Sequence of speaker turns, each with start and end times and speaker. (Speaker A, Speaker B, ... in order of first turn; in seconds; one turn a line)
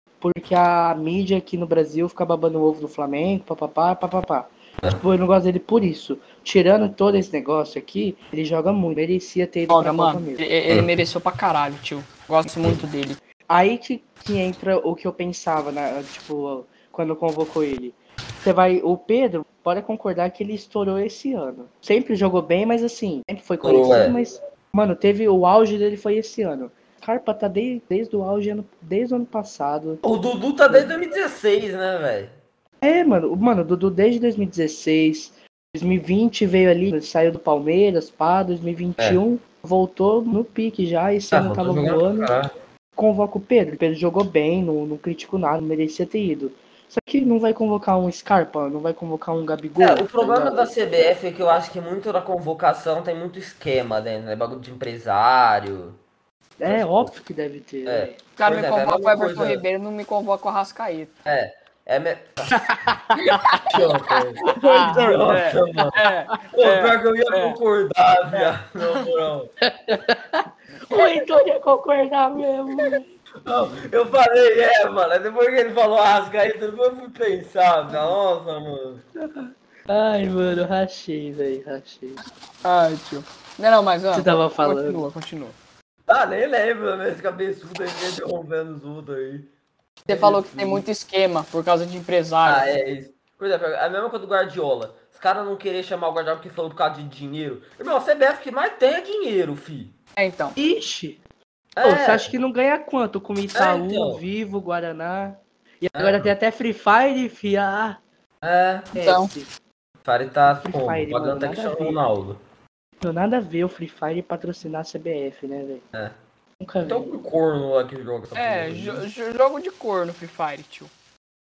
Speaker A: 0.2-10.4
Speaker B: 9.7-13.2
Speaker A: 13.5-30.0
Speaker C: 23.6-24.1
Speaker C: 30.0-32.3
Speaker A: 32.8-42.3
Speaker C: 41.3-42.5
Speaker A: 43.0-50.7
Speaker C: 49.8-56.0
Speaker A: 56.6-58.2
Speaker C: 56.6-57.1
Speaker C: 57.9-59.6
Speaker B: 58.4-61.1
Speaker C: 61.2-62.7
Speaker A: 62.6-63.8
Speaker C: 63.5-69.5
Speaker B: 64.4-67.6
Speaker A: 64.5-65.9
Speaker A: 69.6-73.0
Speaker C: 73.4-79.0
Speaker A: 79.2-82.2
Speaker B: 82.6-85.5
Speaker A: 84.1-85.0
Speaker C: 86.1-89.5
Speaker C: 90.1-90.8
Speaker B: 90.1-92.7
Speaker C: 92.4-99.9
Speaker B: 100.2-100.5
Speaker A: 100.5-101.2
Speaker C: 101.8-102.3
Speaker A: 101.8-108.0
Speaker C: 103.5-104.2
Speaker C: 105.9-106.3
Speaker C: 108.4-108.9
Speaker A: 108.9-109.5
Speaker B: 109.0-109.3
Speaker C: 110.0-112.4
Speaker A: 110.5-112.0
Speaker A: 113.0-115.8
Speaker A: 116.6-117.1
Speaker C: 116.8-119.0
Speaker B: 118.3-120.9